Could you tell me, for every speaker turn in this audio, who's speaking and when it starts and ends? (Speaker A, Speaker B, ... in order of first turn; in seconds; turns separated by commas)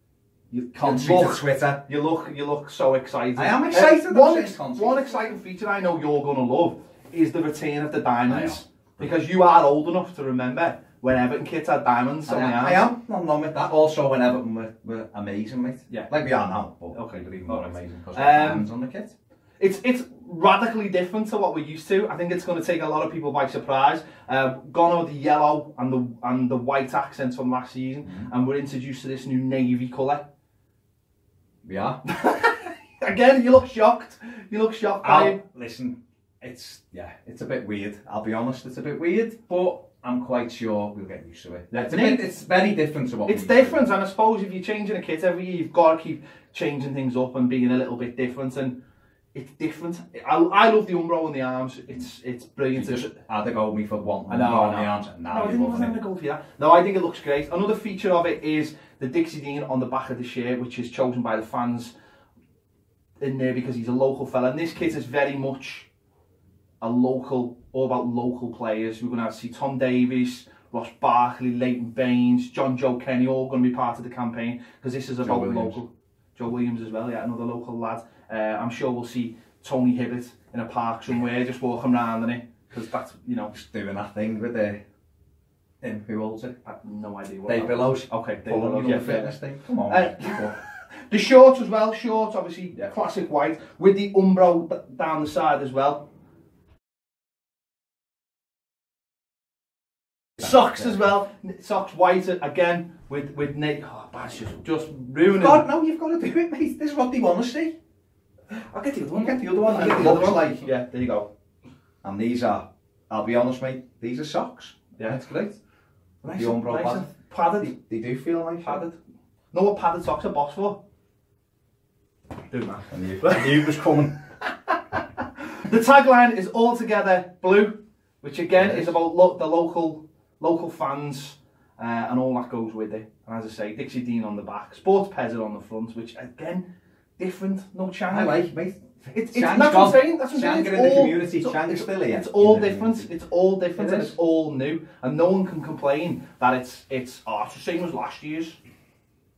Speaker A: 0.5-12.8, Speaker B: 0.8-1.8, Speaker B: 3.4-5.3, Speaker B: 8.3-9.1, Speaker B: 12.2-19.1, Speaker A: 16.9-18.6, Speaker A: 19.6-30.2, Speaker B: 31.6-32.0, Speaker A: 32.1-35.4, Speaker B: 35.0-43.9, Speaker A: 41.7-42.3, Speaker A: 43.2-48.8, Speaker A: 49.3-53.1, Speaker B: 52.7-56.0, Speaker A: 54.3-61.9, Speaker A: 63.2-65.9, Speaker A: 66.8-83.5, Speaker B: 75.2-75.8, Speaker B: 83.5-84.8, Speaker B: 85.8-86.5, Speaker A: 86.6-89.3, Speaker B: 87.5-90.5, Speaker A: 89.9-96.1, Speaker A: 100.4-105.7, Speaker B: 105.3-107.7, Speaker A: 108.5-111.3, Speaker B: 109.1-110.7, Speaker B: 112.0-115.5, Speaker A: 115.0-115.5, Speaker A: 116.2-117.7, Speaker B: 116.3-118.8, Speaker A: 118.6-119.0, Speaker A: 119.5-120.8, Speaker A: 122.5-123.5, Speaker B: 122.9-124.1, Speaker A: 125.6-136.6, Speaker B: 128.5-128.9, Speaker A: 137.2-138.5, Speaker B: 138.1-143.1, Speaker A: 139.3-148.6, Speaker B: 143.8-144.2